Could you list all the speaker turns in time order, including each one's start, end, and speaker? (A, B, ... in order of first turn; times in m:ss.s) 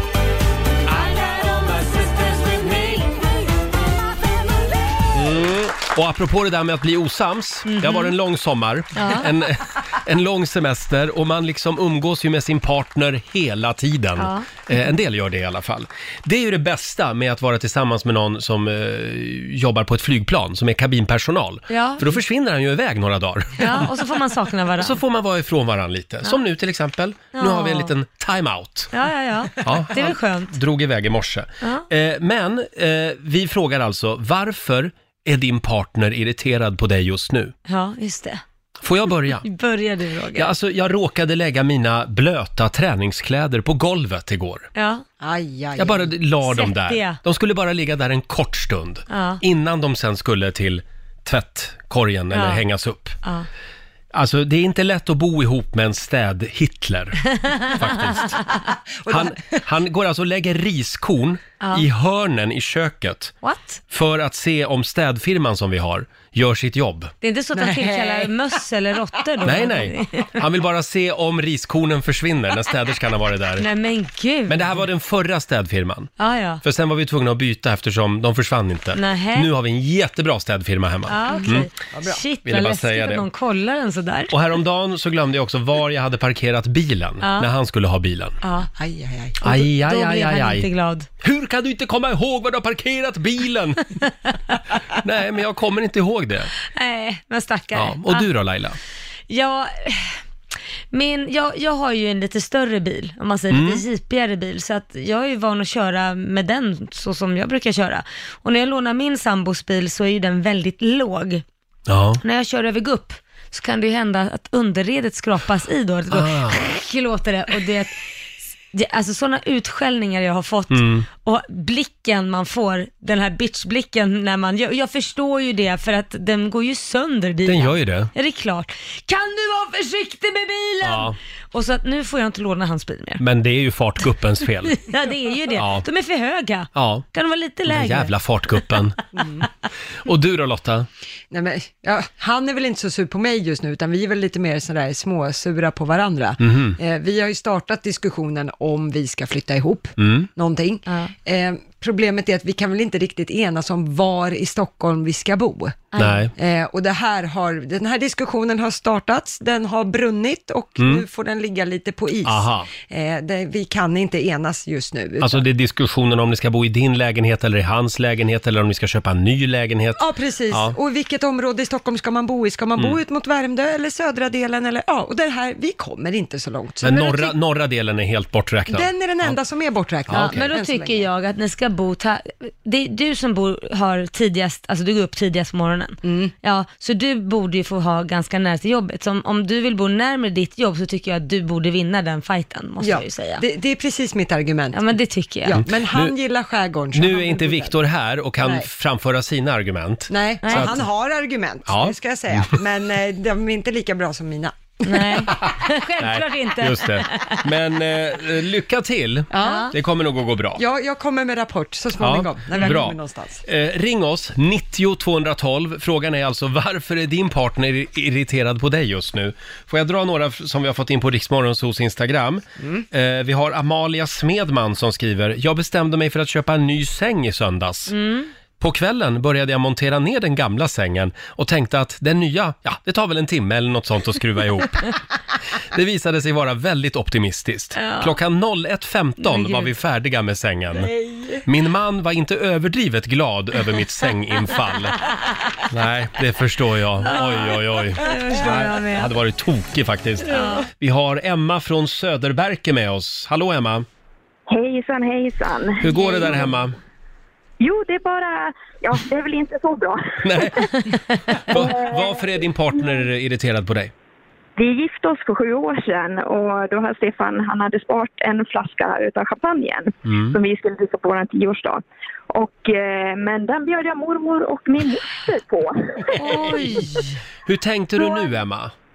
0:00.9-0:03.3 A
0:05.1-0:23.9 B
0:07.7-0:08.1 A
0:09.0-0:09.3 A
0:14.2-0:14.9 A
0:21.7-0:22.2 A
0:23.6-0:25.0 A
0:24.8-0:28.9 B
0:27.4-0:27.9 A
0:28.9-0:30.6 A
0:29.6-0:37.5 B
0:37.7-0:38.4 A
0:38.8-0:39.4 B
0:39.4-0:40.5 A
0:40.4-0:44.7 B
0:44.8-0:45.0 A
0:45.2-0:46.1 C
0:45.8-0:53.2 B
0:46.4-0:47.2 A
0:49.1-0:49.4 A
0:52.3-0:52.6 A
0:54.1-0:58.4 B
0:57.3-0:58.6 A
0:59.0-0:59.6 C
0:59.1-1:03.4 B
1:01.6-1:01.9 A
1:03.4-1:03.8 A
1:03.9-1:07.1 B
1:07.2-1:10.4 A
1:07.5-1:08.5 C
1:09.4-1:13.7 B
1:13.6-1:14.7 A
1:14.5-1:16.1 B
1:16.2-1:16.6 A
1:16.6-1:21.7 B
1:18.9-1:19.5 A
1:21.1-1:24.3 A
1:21.3-1:22.2 C
1:22.4-1:23.3 B
1:24.3-1:28.4 B
1:27.2-1:27.5 A
1:28.4-1:28.7 A
1:28.7-1:29.4 C
1:29.4-1:30.7 B
1:29.4-1:31.1 A
1:31.2-1:34.0 B
1:34.9-1:36.5 B
1:36.7-1:38.3 A
1:37.8-1:38.8 B
1:39.3-1:40.2 A
1:40.9-1:51.4 A
1:43.5-1:43.8 B
1:51.9-1:52.2 B
1:52.2-1:58.0 A
1:56.1-1:56.6 B
1:58.7-2:13.2 A
2:00.7-2:01.1 B
2:07.4-2:08.1 B
2:10.8-2:11.2 B
2:13.2-2:14.8 B
2:14.7-2:18.1 A
2:15.6-2:15.9 B
2:16.8-2:17.1 B
2:17.7-2:19.0 B
2:19.2-2:19.5 C
2:20.0-2:20.9 B
2:21.3-2:45.5 C
2:26.4-2:26.8 B
2:30.0-2:30.3 B
2:30.9-2:31.1 A
2:35.9-2:36.2 A
2:36.0-2:36.3 B
2:40.8-2:41.0 B
2:42.2-2:42.7 B
2:45.2-2:50.8 B
2:50.0-2:57.4 C
2:56.8-2:59.4 B
2:58.7-3:01.1 C
3:00.1-3:00.5 B
3:00.1-3:13.4 A
3:06.0-3:06.3 C
3:12.8-3:14.8 C
3:14.7-3:15.6 A
3:15.4-3:17.8 C
3:15.5-3:16.1 B
3:16.9-3:20.8 B
3:18.4-3:18.7 C
3:20.1-3:25.4 C
3:20.4-3:20.7 A
3:21.7-3:22.6 B
3:24.8-3:27.5 A
3:26.0-3:30.6 B
3:29.3-3:29.7 C
3:29.4-3:29.7 A
3:30.6-3:33.4 C
3:32.0-3:48.0 B
3:42.6-3:42.8 C
3:47.9-3:48.3 A
3:48.6-3:55.0 B
3:55.6-4:00.9 B
3:57.8-3:58.2 A
3:59.2-3:59.7 A
4:01.4-4:05.0 B
4:05.1-4:05.6 A
4:05.7-4:13.9 B
4:07.0-4:09.1 A
4:10.3-4:10.7 A
4:14.5-4:16.6 D
4:15.8-4:16.8 B
4:17.6-4:20.8 D
4:20.2-4:20.8 B
4:20.9-4:21.4 A
4:21.5-4:23.0 D
4:21.5-4:23.9 B
4:24.6-4:37.0 D
4:30.0-4:30.4 B
4:36.1-4:37.2 A
4:37.4-4:38.7 B
4:38.0-4:38.4 D